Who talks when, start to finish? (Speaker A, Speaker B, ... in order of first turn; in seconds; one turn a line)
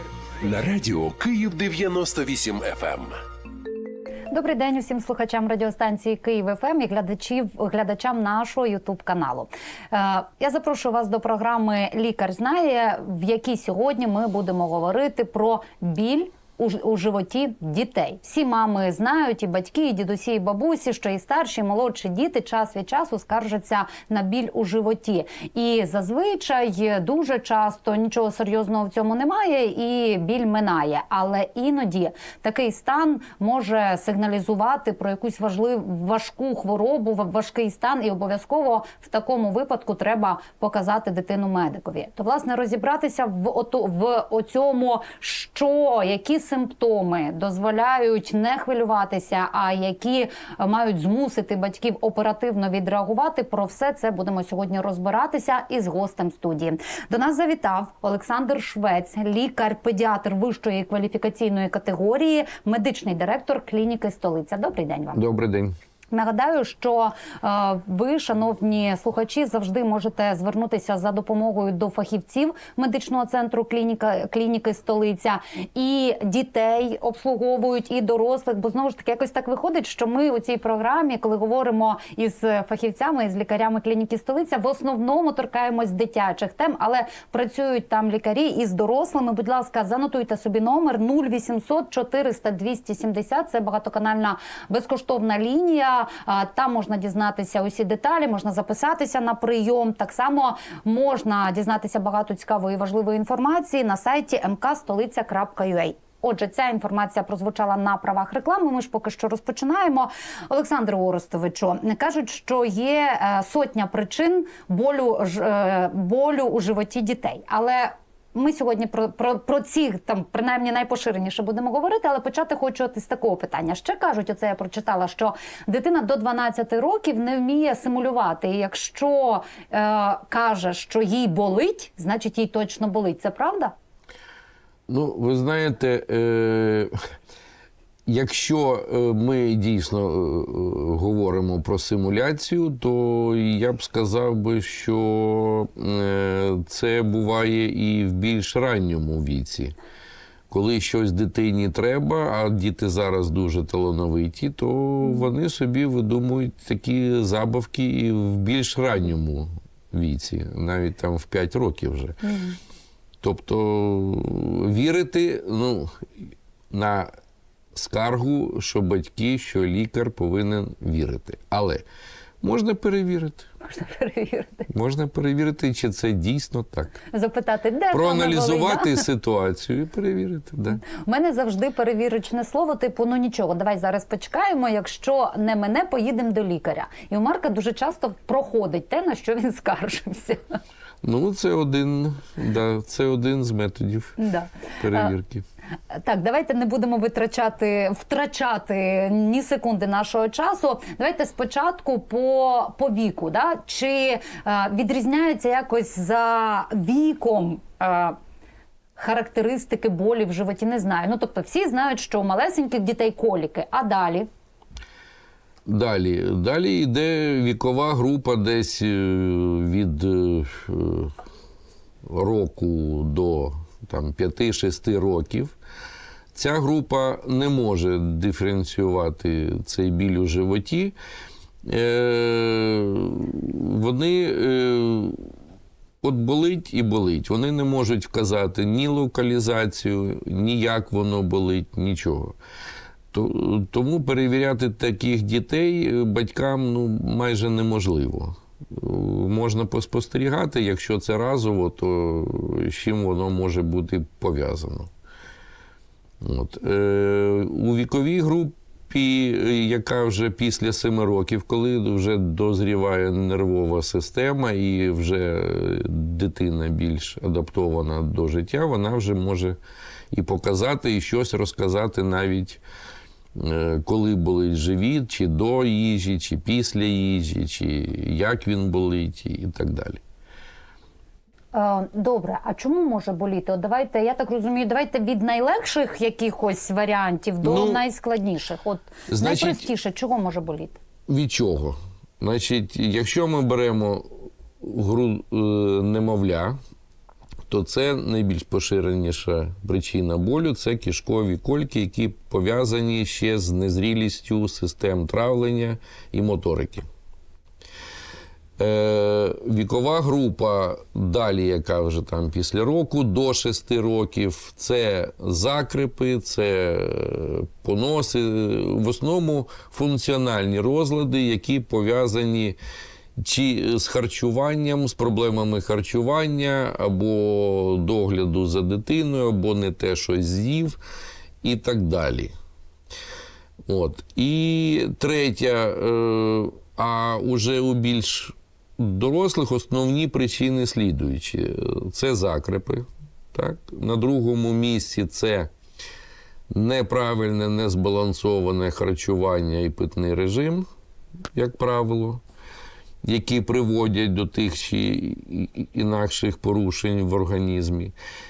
Speaker A: 0.4-3.2
Speaker B: 4.3-65.2
Speaker C: 65.1-65.8
Speaker B: 66.1-133.7
Speaker C: 134.9-136.9
Speaker C: 138.1-149.7
Speaker C: 150.5-162.2
Speaker B: 162.2-162.6
Speaker C: 163.2-167.1
Speaker C: 167.7-171.8
Speaker C: 172.4-173.5
Speaker B: 173.6-174.7
Speaker C: 174.7-177.0
Speaker B: 177.1-179.0
Speaker C: 177.9-180.8
Speaker B: 180.8-190.6
Speaker C: 191.0-194.2
Speaker B: 194.2-195.1
Speaker C: 194.8-195.4
Speaker B: 195.9-208.2
Speaker B: 209.0-214.3
Speaker C: 215.7-221.1
Speaker C: 222.0-225.5
Speaker C: 226.3-230.9
Speaker C: 231.6-235.3
Speaker C: 236.0-242.3
Speaker C: 243.1-254.9
Speaker C: 256.2-269.6
Speaker C: 270.1-272.6
Speaker C: 273.3-280.0
Speaker B: 281.5-290.8
Speaker C: 287.4-287.8
Speaker C: 289.1-289.7
Speaker C: 291.1-294.1
Speaker C: 294.6-296.6
Speaker C: 297.5-306.9
Speaker C: 308.6-322.6
Speaker C: 323.2-330.8
Speaker C: 331.4-332.3
Speaker C: 333.7-345.5
Speaker C: 346.5-350.7
Speaker C: 351.3-352.2
Speaker C: 353.0-357.9